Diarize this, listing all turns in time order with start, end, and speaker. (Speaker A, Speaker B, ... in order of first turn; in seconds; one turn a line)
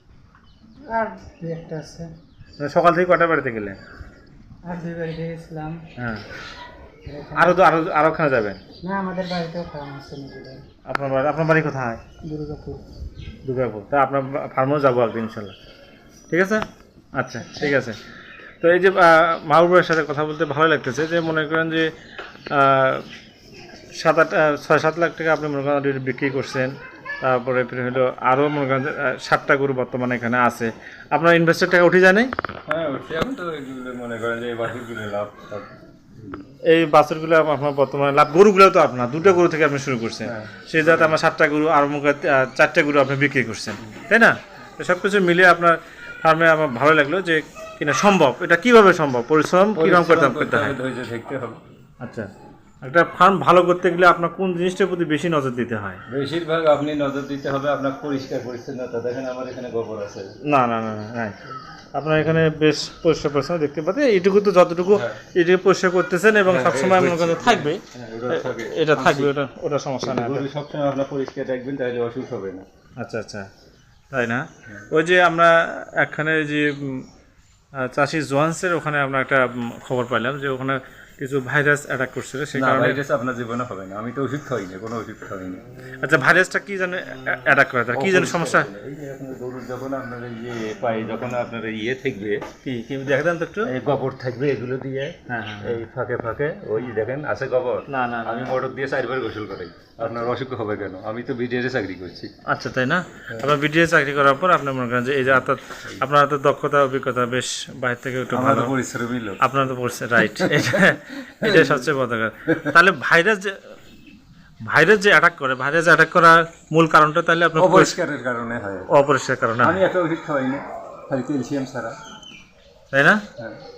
Speaker A: 0.9-2.1
Speaker B: 2.6-3.8
Speaker A: 4.6-5.8
Speaker B: 6.0-6.2
Speaker A: 7.0-7.5
Speaker B: 7.3-8.6
Speaker A: 8.8-10.6
Speaker B: 10.9-12.0
Speaker A: 12.2-12.8
Speaker B: 13.4-15.6
Speaker B: 16.3-18.0
Speaker B: 18.6-21.9
Speaker B: 22.5-23.1
Speaker B: 24.0-32.3
Speaker C: 32.7-36.5
Speaker B: 36.6-50.8
Speaker C: 40.2-41.2
Speaker C: 49.7-51.6
Speaker B: 52.0-52.3
Speaker B: 52.8-56.0
Speaker C: 56.1-60.3
Speaker B: 60.5-61.4
Speaker B: 62.0-70.5
Speaker C: 64.9-65.2
Speaker C: 66.5-69.3
Speaker C: 70.0-72.6
Speaker B: 73.0-73.5
Speaker B: 74.1-77.1
Speaker B: 77.7-83.0
Speaker C: 82.5-85.6
Speaker B: 86.0-88.7
Speaker C: 87.9-92.5
Speaker B: 92.6-93.7
Speaker C: 93.6-102.3
Speaker B: 95.3-95.8
Speaker B: 97.9-98.5
Speaker B: 102.5-108.7
Speaker C: 108.3-109.4
Speaker B: 109.4-113.7
Speaker C: 110.3-111.9
Speaker C: 112.5-112.8
Speaker B: 114.7-118.0
Speaker C: 117.5-118.9
Speaker B: 118.9-119.8
Speaker C: 119.6-122.0
Speaker B: 122.9-123.2